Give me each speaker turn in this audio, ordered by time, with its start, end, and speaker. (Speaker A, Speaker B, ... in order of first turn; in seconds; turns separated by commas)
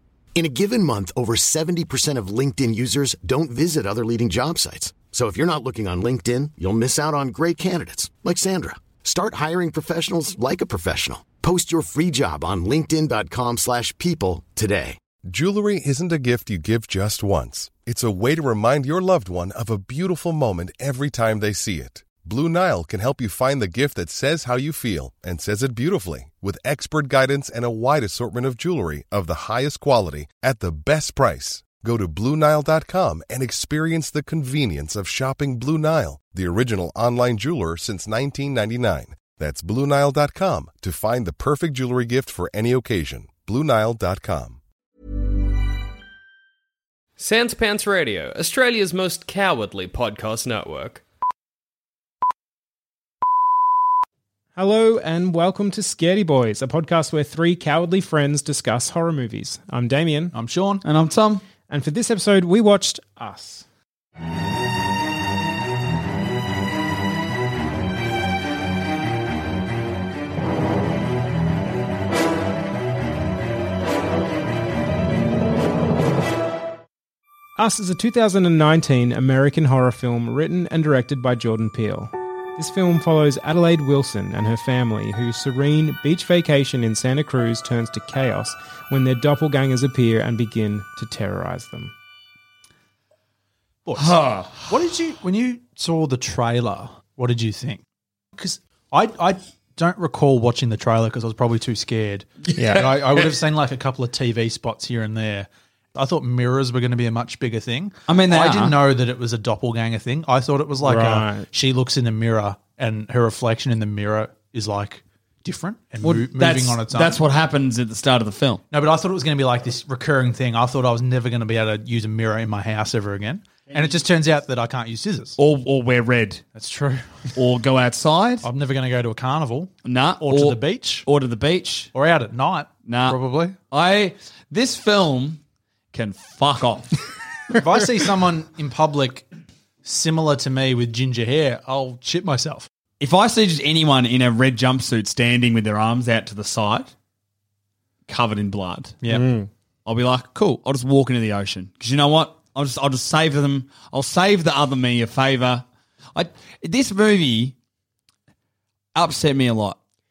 Speaker A: 0.3-15.0, Speaker B: 15.2-44.6, Speaker C: 47.2-51.0, Speaker D: 54.5-60.3, Speaker E: 60.3-60.8, Speaker F: 60.8-61.4, Speaker D: 61.7-63.6, Speaker D: 77.6-91.9, Speaker E: 93.8-97.8, Speaker F: 94.0-94.7, Speaker E: 98.3-117.2, Speaker D: 102.5-102.9, Speaker F: 102.7-103.3, Speaker F: 108.1-108.8, Speaker D: 110.8-111.5, Speaker F: 116.0-118.6, Speaker E: 118.7-125.4, Speaker F: 125.4-126.4, Speaker E: 126.5-127.3, Speaker F: 127.3-128.5, Speaker E: 128.4-131.1, Speaker F: 129.8-131.9, Speaker E: 131.9-133.6, Speaker F: 132.8-135.4, Speaker F: 135.9-137.0, Speaker E: 137.5-139.3, Speaker E: 139.8-142.7, Speaker F: 143.0-146.9, Speaker F: 148.1-149.0, Speaker D: 149.1-149.5, Speaker F: 149.8-157.5, Speaker F: 158.9-159.8